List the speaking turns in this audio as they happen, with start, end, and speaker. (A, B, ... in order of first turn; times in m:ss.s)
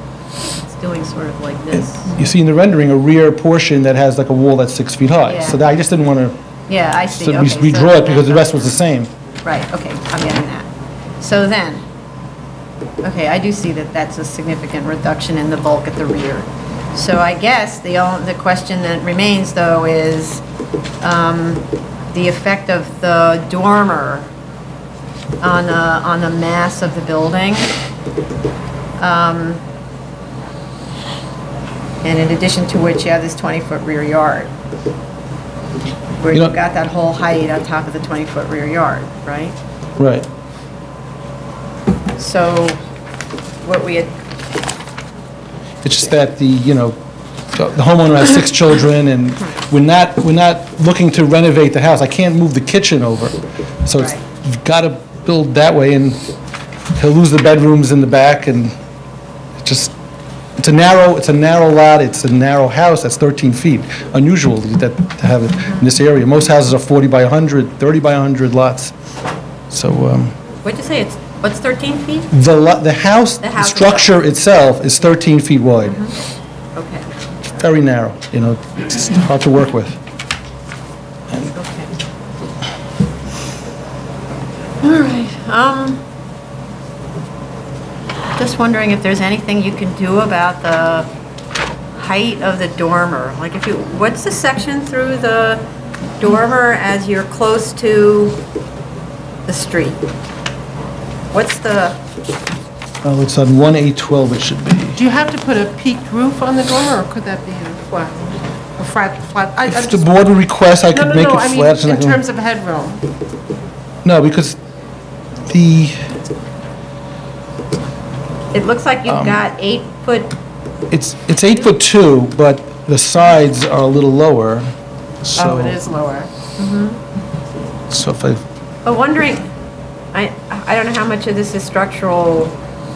0:00.6-0:02.1 A
0:02.0-0:06.4 B
0:05.2-0:05.6 A
0:06.7-0:08.8 A
0:07.1-0:09.1 B
0:09.4-0:10.7 A
0:11.2-0:11.8 A
0:13.0-0:20.4 A
0:21.0-0:24.3 A
0:25.4-0:27.7 A
0:29.0-0:29.6 A
0:32.0-0:34.5 A
0:36.2-0:39.6 A
0:40.0-0:40.3 B
0:42.2-0:42.8 A
0:43.6-0:44.1 A
0:45.8-0:47.0 B
0:47.5-0:56.2 B
0:57.0-0:58.7 B
0:59.6-0:59.9 B
1:00.6-1:08.9 B
1:09.7-1:10.4 B
1:10.6-1:12.3 A
1:12.3-1:16.0 B
1:13.4-1:14.2 A
1:15.8-1:16.2 A
1:16.7-1:17.1 A
1:17.6-1:20.0 B
1:21.5-1:21.9 A
1:24.8-1:26.0 A
1:28.4-1:31.1 A
1:31.9-1:35.6 A
1:36.2-1:38.4 A
1:39.5-1:40.0 A
1:41.3-1:42.0 A
1:43.0-1:45.0 B
1:44.9-1:50.0 C
1:49.6-1:52.2 B
1:50.9-1:53.0 C
1:54.0-1:54.6 B
1:55.5-1:56.0 B
1:58.5-2:00.3 A
1:59.1-1:59.4 B
2:00.9-2:04.7 B
2:05.2-2:05.8 B
2:05.4-2:06.3 C
2:06.6-2:07.0 A
2:07.9-2:08.4 B
2:08.8-2:09.5 A
2:10.1-2:12.6 A